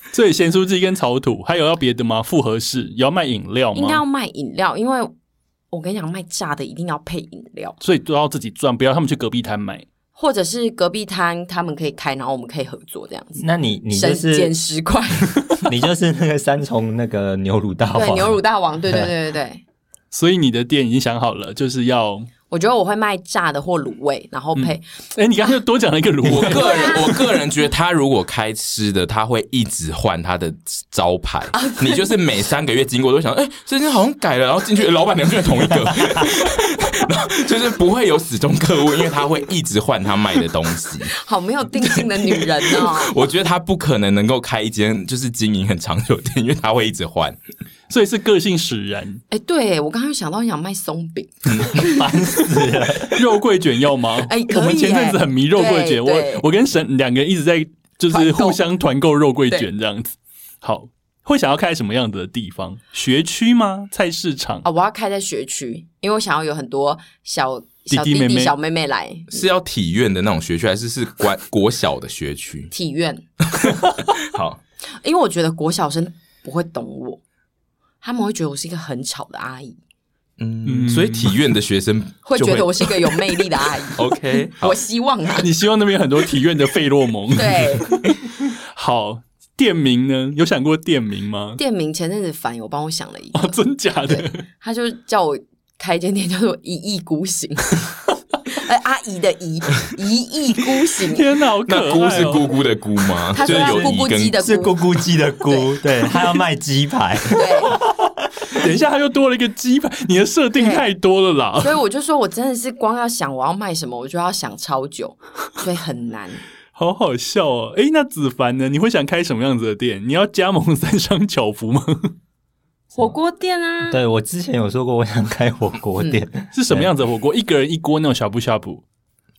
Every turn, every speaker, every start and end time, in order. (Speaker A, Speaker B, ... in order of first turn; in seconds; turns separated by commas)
Speaker A: 0.1-4.0, Speaker B: 3.7-5.1, Speaker B: 5.7-7.8, Speaker A: 7.8-9.8, Speaker B: 10.2-15.3, Speaker C: 13.4-14.5, Speaker C: 15.6-18.4, Speaker B: 17.9-19.6, Speaker A: 20.1-22.3, Speaker B: 22.5-24.8, Speaker A: 24.6-26.9, Speaker D: 26.2-41.2, Speaker B: 26.4-27.3, Speaker B: 31.5-32.2, Speaker B: 41.1-43.2, Speaker D: 41.8-47.4, Speaker A: 47.9-49.2, Speaker B: 49.3-52.2, Speaker C: 51.6-53.2, Speaker A: 53.1-64.7, Speaker B: 54.2-56.5, Speaker B: 58.1-58.6, Speaker B: 64.6-69.4, Speaker A: 67.9-68.5, Speaker D: 69.3-72.7, Speaker B: 72.7-73.2, Speaker D: 73.5-74.6, Speaker B: 75.0-77.2, Speaker B: 78.0-79.8, Speaker D: 80.4-83.4, Speaker A: 80.7-81.3, Speaker B: 82.2-85.5, Speaker D: 83.9-84.8, Speaker A: 85.3-88.0, Speaker B: 87.3-88.0, Speaker A: 88.7-91.6, Speaker B: 91.6-97.9, Speaker A: 93.3-94.4, Speaker B: 98.5-101.3, Speaker A: 101.1-102.5, Speaker D: 101.7-104.4, Speaker B: 103.3-105.7, Speaker C: 103.4-108.7, Speaker B: 107.3-107.8, Speaker A: 108.5-111.8, Speaker B: 110.5-110.8, Speaker B: 111.6-116.4, Speaker A: 116.7-122.1, Speaker B: 122.9-124.0, Speaker C: 123.9-126.9, Speaker A: 126.5-128.8